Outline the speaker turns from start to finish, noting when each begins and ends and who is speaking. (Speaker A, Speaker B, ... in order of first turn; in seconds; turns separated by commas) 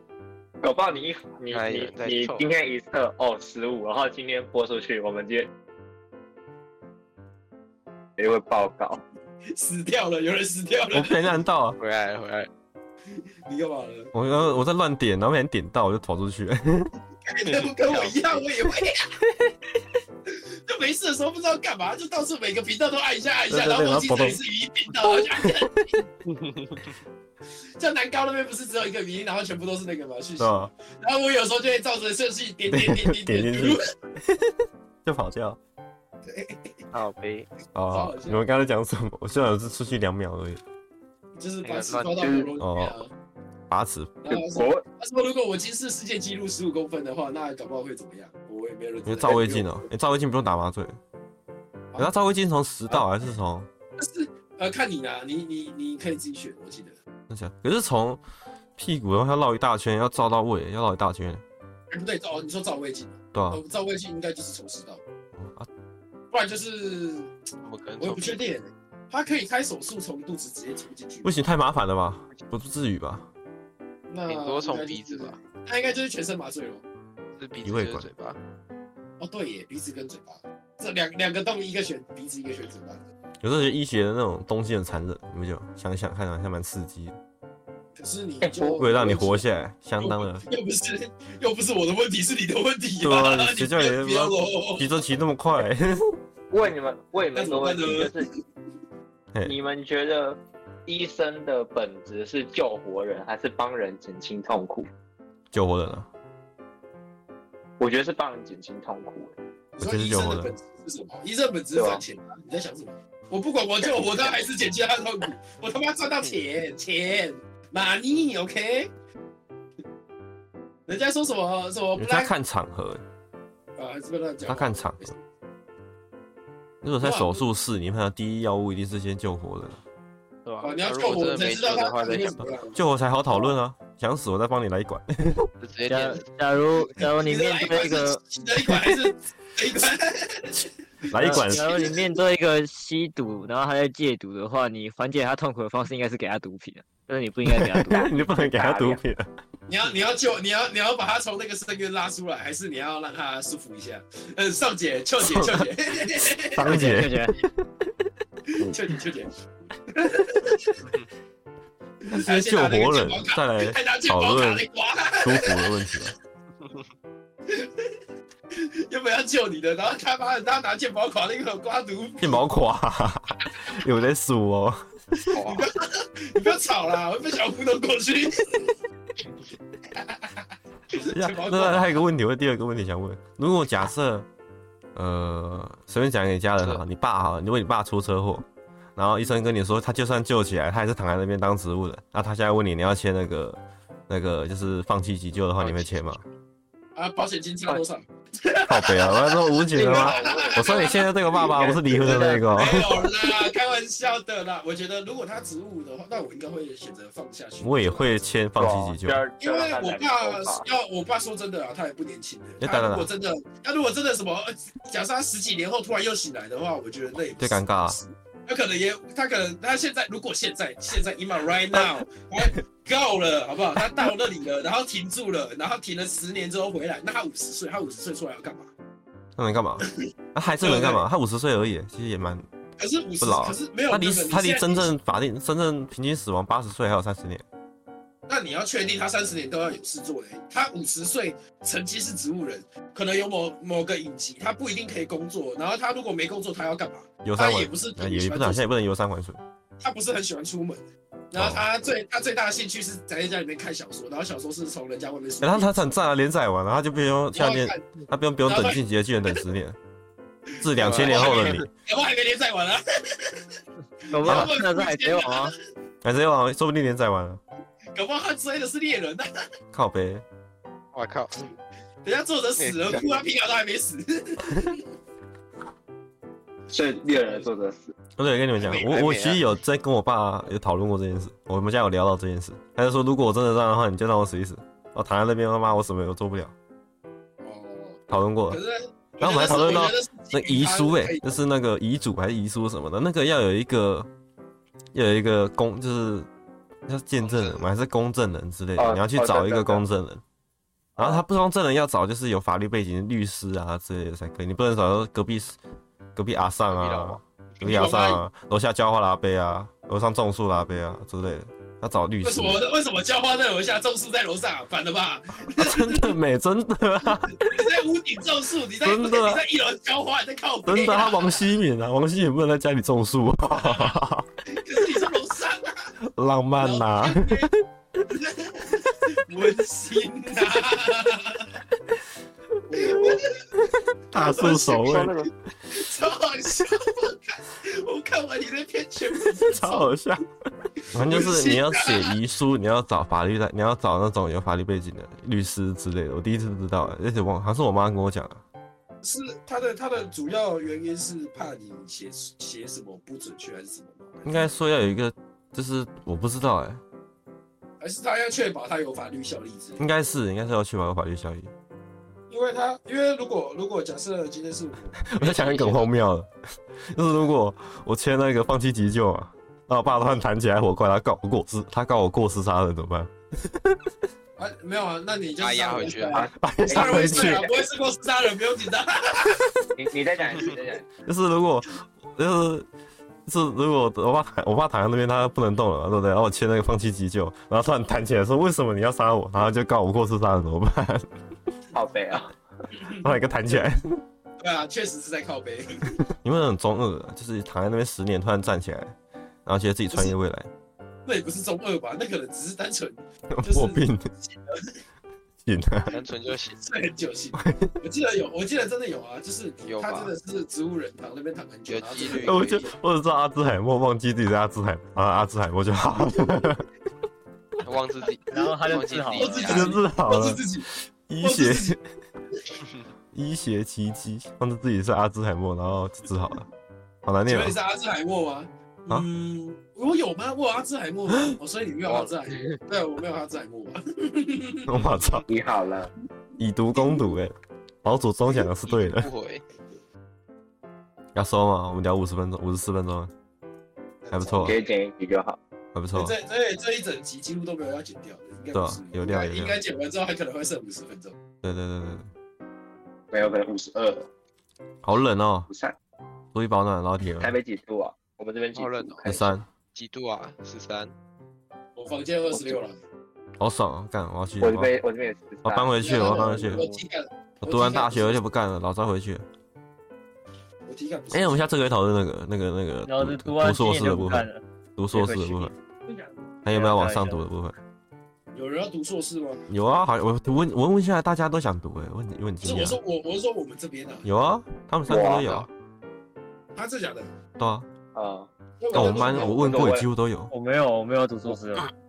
Speaker A: 0.6-5.5, Speaker B: 1.5-2.5, Speaker A: 8.2-9.0, Speaker C: 9.5-11.2, Speaker D: 10.9-11.8, Speaker B: 11.8-12.5, Speaker C: 13.4-14.1, Speaker D: 14.1-16.9, Speaker C: 17.3-19.2, Speaker B: 17.7-18.1, Speaker C: 20.3-26.0, Speaker D: 23.5-24.4, Speaker D: 25.2-25.7, Speaker B: 26.3-26.9, Speaker C: 27.8-33.9, Speaker D: 30.4-30.7, Speaker D: 32.7-35.6, Speaker C: 36.2-36.9, Speaker B: 36.9-37.5, Speaker D: 37.7-40.6, Speaker C: 37.9-38.4, Speaker C: 41.4-43.1, Speaker B: 41.6-42.2, Speaker A: 42.1-42.5, Speaker D: 42.6-43.0, Speaker D: 43.7-44.2, Speaker C: 44.2-49.8, Speaker A: 44.3-44.8, Speaker D: 49.0-51.0, Speaker D: 52.0-53.7, Speaker C: 54.0-57.0, Speaker D: 57.3-58.2, Speaker D: 58.8-61.4, Speaker C: 61.9-65.0, Speaker D: 63.3-63.6, Speaker D: 65.3-65.7, Speaker C: 66.3-67.4, Speaker B: 67.6-68.4, Speaker C: 68.0-71.4, Speaker D: 71.2-73.3, Speaker C: 74.1-76.8, Speaker B: 74.3-75.4, Speaker B: 77.4-78.4, Speaker D: 77.6-78.1, Speaker C: 79.2-83.0, Speaker D: 83.4-87.2, Speaker C: 88.0-89.5, Speaker A: 88.4-88.8, Speaker D: 88.8-90.4, Speaker C: 90.0-94.9, Speaker D: 93.0-96.0, Speaker A: 96.5-98.3, Speaker C: 97.3-98.4, Speaker A: 99.4-104.9, Speaker D: 105.5-106.1, Speaker A: 107.8-109.3, Speaker C: 109.7-118.9, Speaker D: 109.8-110.5, Speaker A: 111.7-112.0, Speaker A: 113.8-114.3, Speaker C: 120.9-122.3, Speaker D: 122.0-123.0, Speaker C: 123.8-125.2, Speaker D: 124.4-125.1, Speaker D: 126.8-129.8, Speaker C: 127.0-127.4, Speaker B: 130.4-132.6, Speaker C: 130.6-133.5, Speaker D: 132.7-135.5, Speaker B: 135.6-136.3, Speaker E: 135.9-138.2, Speaker C: 137.1-142.1, Speaker D: 138.7-139.0, Speaker D: 141.1-141.9, Speaker E: 141.1-148.8, Speaker D: 147.4-149.3, Speaker A: 148.2-149.0, Speaker C: 149.7-156.8, Speaker D: 155.2-157.9, Speaker E: 156.6-157.4, Speaker C: 158.5-160.7, Speaker C: 162.0-165.7, Speaker D: 162.1-164.7, Speaker D: 165.2-166.1, Speaker C: 167.5-167.9, Speaker C: 168.5-172.4, Speaker D: 172.2-175.3, Speaker B: 175.3-175.7, Speaker C: 175.4-178.8, Speaker C: 179.9-182.0, Speaker D: 181.1-184.3, Speaker D: 184.9-196.2, Speaker B: 195.6-196.2, Speaker C: 196.9-208.1, Speaker D: 198.7-203.1, Speaker A: 199.7-202.7, Speaker D: 207.6-209.2, Speaker A: 208.6-210.7, Speaker C: 209.4-228.7, Speaker D: 212.6-213.1, Speaker D: 217.4-218.0, Speaker D: 229.4-232.4, Speaker C: 230.6-231.0, Speaker C: 232.8-234.9, Speaker D: 233.2-237.4, Speaker C: 238.3-248.7, Speaker D: 247.2-249.4, Speaker C: 249.8-255.7, Speaker D: 251.3-251.7, Speaker D: 255.4-259.8, Speaker C: 257.3-258.8, Speaker C: 260.6-263.6, Speaker D: 260.6-261.7, Speaker B: 260.8-261.7, Speaker C: 264.1-265.5, Speaker E: 264.1-265.5, Speaker D: 264.2-264.5, Speaker D: 266.0-267.4, Speaker C: 267.9-269.3, Speaker D: 269.7-270.2, Speaker B: 270.9-271.5, Speaker C: 272.0-274.8, Speaker B: 272.6-273.2, Speaker A: 276.7-277.9, Speaker C: 277.1-277.5, Speaker D: 278.2-286.5, Speaker C: 278.6-279.1, Speaker B: 278.9-279.4, Speaker C: 287.4-291.4, Speaker D: 288.1-288.6, Speaker D: 289.2-294.1, Speaker D: 294.9-296.3, Speaker D: 296.9-300.2, Speaker B: 297.2-297.6, Speaker A: 298.8-299.8, Speaker A: 301.0-301.2, Speaker D: 301.0-305.6, Speaker D: 306.1-312.6, Speaker B: 306.7-307.2, Speaker C: 307.6-308.2, Speaker C: 312.2-316.1, Speaker D: 315.5-317.7, Speaker C: 317.3-321.4, Speaker D: 318.8-319.4, Speaker D: 320.6-324.3, Speaker C: 323.6-323.9, Speaker C: 324.5-325.9, Speaker D: 326.0-327.6, Speaker C: 326.6-327.5, Speaker C: 328.1-331.5, Speaker C: 332.7-333.4, Speaker D: 334.1-335.3, Speaker C: 334.1-339.9, Speaker A: 334.4-335.3, Speaker D: 339.3-340.3, Speaker D: 340.9-348.4, Speaker C: 340.9-342.1, Speaker C: 349.0-354.4, Speaker D: 354.2-356.8, Speaker C: 357.8-359.8, Speaker D: 359.8-361.5, Speaker C: 362.3-365.9, Speaker D: 365.0-366.3, Speaker D: 366.9-373.9, Speaker C: 374.4-379.5, Speaker B: 375.4-376.3, Speaker A: 376.1-377.6, Speaker D: 376.4-377.4, Speaker A: 379.8-380.9, Speaker D: 381.1-382.6, Speaker D: 383.3-391.1, Speaker A: 391.7-392.3, Speaker C: 392.8-393.7, Speaker D: 393.0-394.0, Speaker C: 394.4-396.0, Speaker D: 396.1-398.9, Speaker D: 399.4-400.5, Speaker C: 401.1-404.8, Speaker D: 403.3-404.1, Speaker D: 405.4-406.0, Speaker B: 405.9-406.6, Speaker C: 406.6-412.7, Speaker D: 407.4-407.8, Speaker B: 409.6-410.1, Speaker B: 411.7-412.7, Speaker D: 412.2-416.6, Speaker B: 417.6-419.7, Speaker E: 418.3-419.6, Speaker C: 418.3-420.7, Speaker D: 419.4-420.4, Speaker D: 421.1-421.8, Speaker C: 421.2-421.7, Speaker D: 423.1-426.5, Speaker D: 427.1-427.6, Speaker C: 427.3-435.1, Speaker B: 431.9-432.6, Speaker D: 434.7-435.2, Speaker A: 435.3-435.9, Speaker D: 436.4-439.1, Speaker C: 436.8-437.1, Speaker B: 438.6-439.4, Speaker D: 441.1-443.1, Speaker C: 444.0-444.7, Speaker D: 444.1-444.6, Speaker A: 444.3-445.4, Speaker D: 445.7-446.1, Speaker C: 445.9-451.2, Speaker D: 448.5-449.6, Speaker D: 451.4-452.1, Speaker A: 453.1-454.1, Speaker D: 454.8-455.5, Speaker A: 455.5-455.8, Speaker D: 456.3-457.3, Speaker A: 457.2-459.3, Speaker B: 458.5-459.0, Speaker D: 459.0-459.4, Speaker B: 459.7-460.9, Speaker C: 461.8-462.8, Speaker A: 462.3-462.6, Speaker D: 463.4-464.7, Speaker A: 464.4-466.8, Speaker D: 465.4-466.6, Speaker C: 465.8-468.3, Speaker D: 467.4-469.2, Speaker C: 470.6-471.5, Speaker D: 471.1-475.5, Speaker E: 472.9-475.6, Speaker D: 476.4-477.6, Speaker E: 476.5-477.3, Speaker C: 478.3-479.4, Speaker D: 479.5-482.8, Speaker C: 482.4-484.1, Speaker D: 484.1-485.5, Speaker A: 484.9-485.3, Speaker B: 485.1-485.5, Speaker C: 486.6-487.1, Speaker D: 487.4-487.7, Speaker A: 487.9-489.9, Speaker C: 488.6-489.7, Speaker D: 488.7-490.3, Speaker E: 490.3-491.7